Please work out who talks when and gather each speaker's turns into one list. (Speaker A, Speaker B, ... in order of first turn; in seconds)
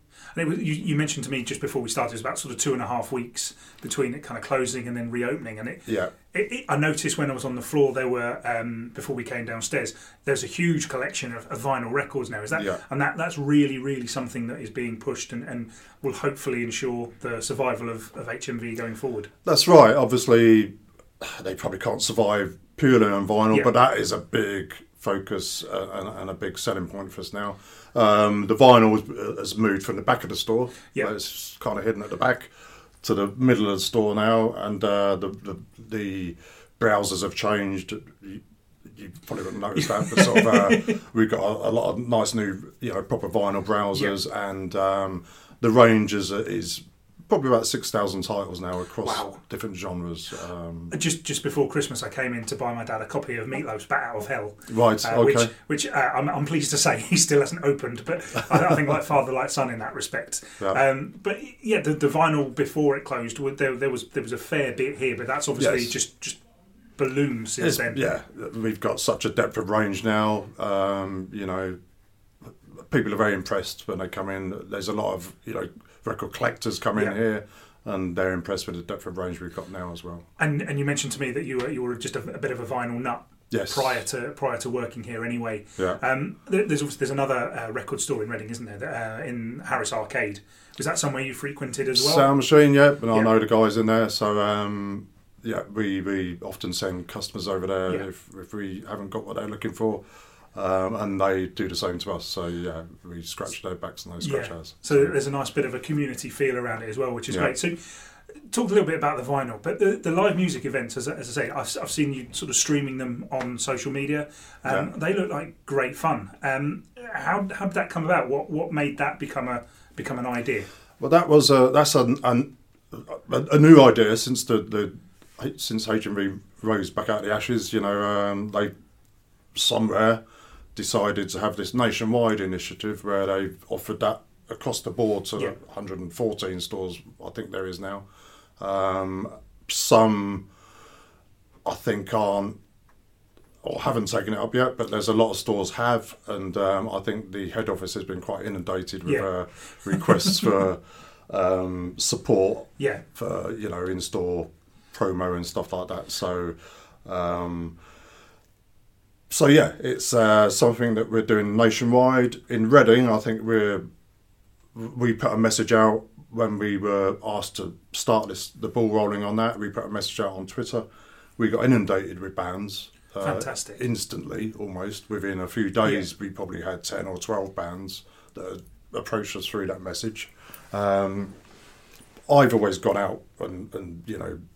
Speaker A: 0.3-19.3, 39.8-40.9, 49.0-49.4, 50.9-66.4, 67.0-68.0, 80.4-92.3, 104.2-107.8, 108.5-120.7, 149.1-149.3, 149.9-150.4, 173.2-173.8, 175.8-176.1
Speaker B: 5.9-6.1, 12.5-12.8, 19.4-32.5, 33.0-51.0, 54.7-55.5, 65.6-66.0, 67.6-71.8, 72.9-80.2, 83.5-84.0, 91.9-100.0, 100.5-105.2, 107.3-107.5, 114.7-114.9, 121.0-128.7, 129.5-130.2, 130.8-138.0, 138.6-140.5, 141.7-142.6, 143.6-157.8, 159.3-163.9, 164.7-170.8, 171.4-181.3, 182.3-184.4